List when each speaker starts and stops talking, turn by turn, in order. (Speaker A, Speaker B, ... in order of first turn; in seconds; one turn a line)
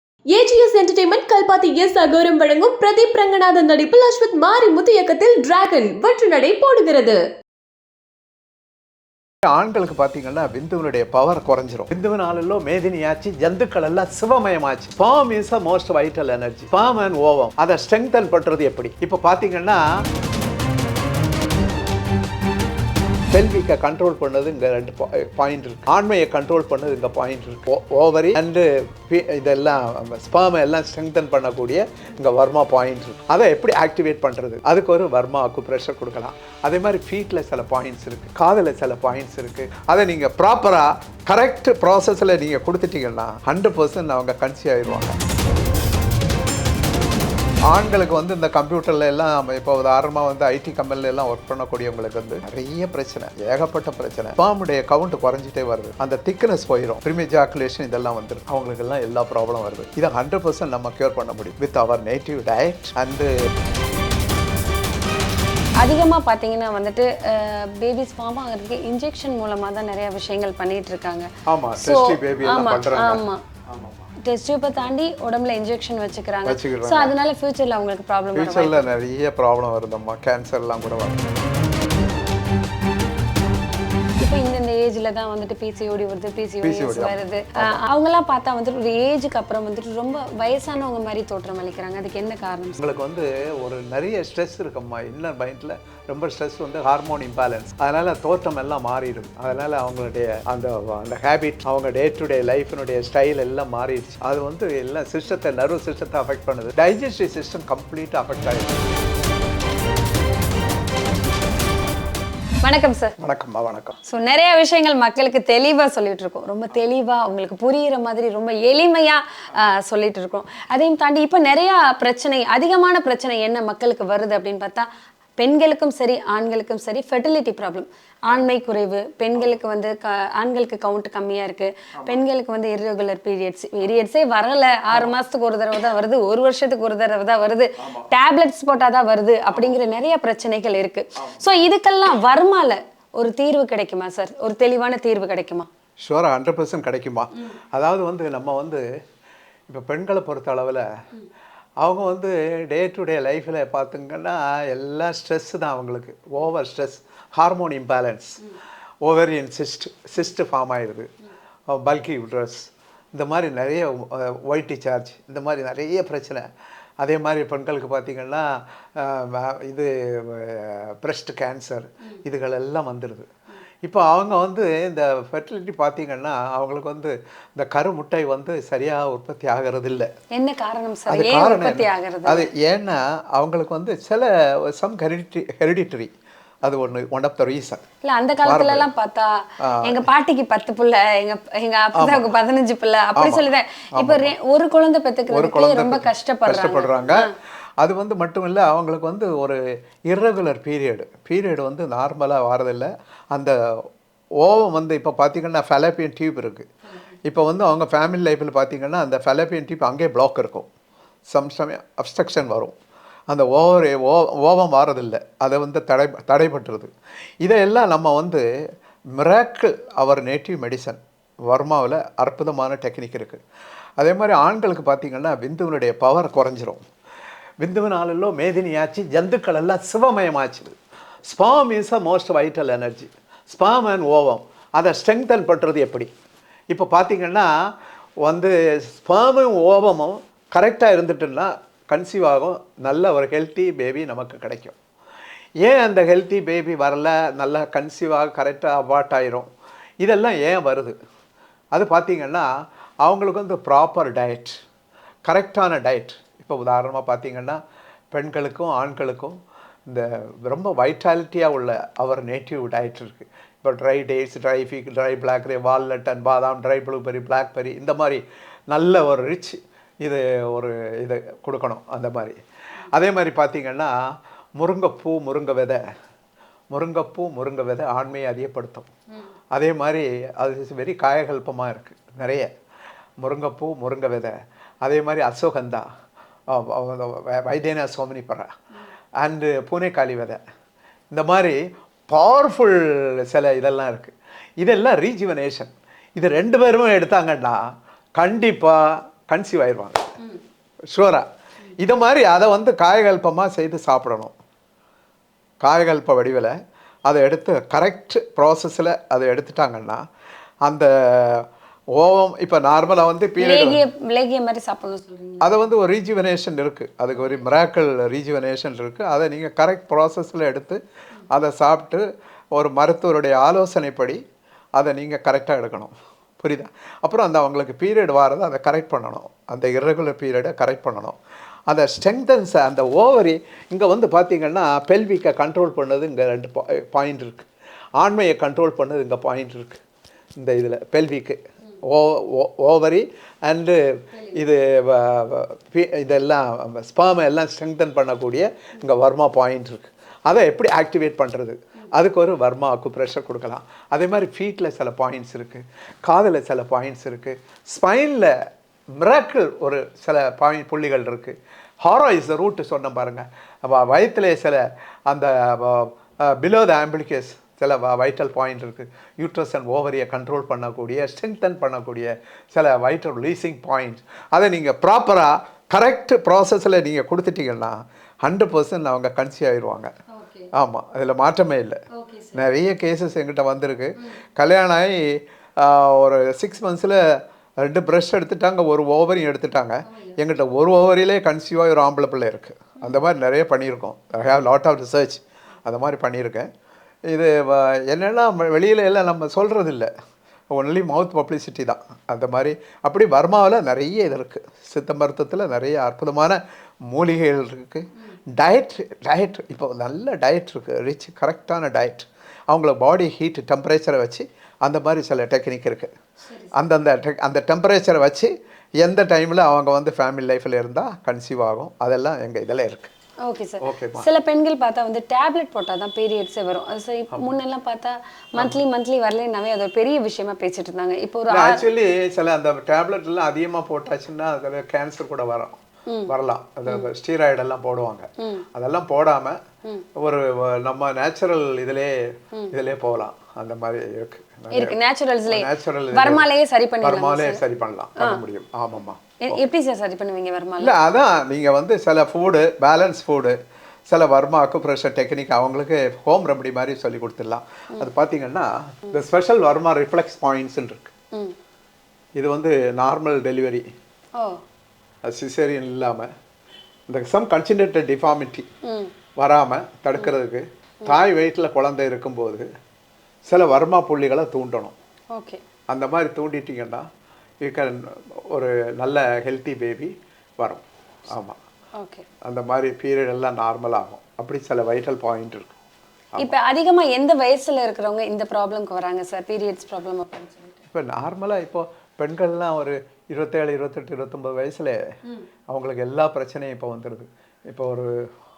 Speaker A: 0.3-7.2
Speaker B: 9.4-19.8
Speaker B: 23.3-45.2
Speaker B: 47.7-63.3
Speaker C: 65.8-73.4
Speaker B: 71.5-74.1
Speaker C: 74.2-78.9
Speaker B: 76.4-77.1
Speaker B: 78.3-81.3
Speaker C: 84.2-92.8
Speaker B: 86.6-87.8
Speaker B: 92.8-108.8
Speaker C: 112.6-113.2
Speaker B: 113.2-114.0
Speaker C: 114.0-145.7
Speaker B: 131.9-132.2
Speaker B: 134.9-135.2
Speaker B: 137.8-138.1
Speaker B: 146.0-148.8
Speaker B: 149.7-150.9
Speaker B: 151.8-161.1
Speaker B: 161.7-166.4
Speaker B: 167.0-173.3
Speaker B: 173.8-180.1
Speaker C: 180.3-182.5
Speaker B: 181.1-186.1
Speaker B: 186.6-187.8
Speaker C: 188.0-197.3
Speaker B: 188.4-188.9
Speaker B: 189.6-190.0
Speaker B: 191.9-192.3
Speaker B: 193.1-194.3
Speaker B: 195.3-203.6
Speaker B: 204.4-206.7
Speaker B: 207.2-210.7
Speaker B: 211.3-212.7
Speaker B: 213.3-216.9
Speaker B: 217.4-218.5
Speaker B: 219.1-223.4
Speaker B: 224.0-226.8
Speaker B: 227.6-230.7
Speaker B: 231.3-236.1
Speaker B: 236.7-237.7
Speaker B: 238.2-244.8
Speaker B: 245.6-249.5
Speaker B: 250.0-250.9
Speaker B: 251.7-252.5
Speaker B: 253.0-254.6
Speaker B: 255.2-257.6
Speaker B: 258.1-272.4
Speaker B: 272.9-273.9
Speaker B: 274.6-275.8
Speaker B: 276.7-278.9
Speaker B: 279.5-282.5
Speaker B: 283.2-285.8
Speaker B: 286.5-288.5
Speaker B: 289.2-290.4
Speaker B: 291.1-297.6
Speaker B: 298.1-300.1
Speaker B: 300.9-301.2
Speaker B: 301.8-304.3
Speaker B: 305.6-306.5
Speaker B: 307.1-310.0
Speaker B: 310.6-313.8
Speaker C: 313.4-315.7
Speaker B: 315.4-320.8
Speaker B: 321.3-324.2
Speaker B: 324.8-331.2
Speaker B: 331.7-339.8
Speaker B: 340.4-358.3
Speaker B: 358.9-379.9
Speaker C: 380.1-380.5
Speaker B: 380.5-381.8
Speaker C: 381.9-382.4
Speaker B: 382.3-396.5
Speaker C: 389.9-390.2
Speaker B: 397.1-399.9
Speaker B: 400.5-415.9
Speaker C: 416.2-416.6
Speaker B: 416.5-422.9
Speaker C: 423.2-431.7
Speaker B: 423.6-424.1
Speaker B: 431.3-439.4
Speaker C: 435.9-436.1
Speaker C: 438.2-438.4
Speaker B: 439.9-446.3
Speaker C: 444.5-447.4
Speaker B: 446.8-449.4
Speaker C: 448.0-448.2
Speaker C: 449.2-450.8
Speaker B: 450.6-453.4
Speaker B: 453.9-460.9
Speaker B: 462.1-463.6
Speaker B: 465.0-466.1
Speaker B: 466.9-468.4
Speaker C: 468.6-468.9
Speaker B: 469.2-472.4
Speaker B: 473.3-474.7
Speaker C: 475.1-475.4
Speaker B: 475.7-476.9
Speaker B: 477.4-481.4
Speaker C: 481.8-482.1
Speaker B: 482.2-485.5
Speaker C: 486.2-490.6
Speaker B: 490.7-494.8
Speaker B: 495.5-498.1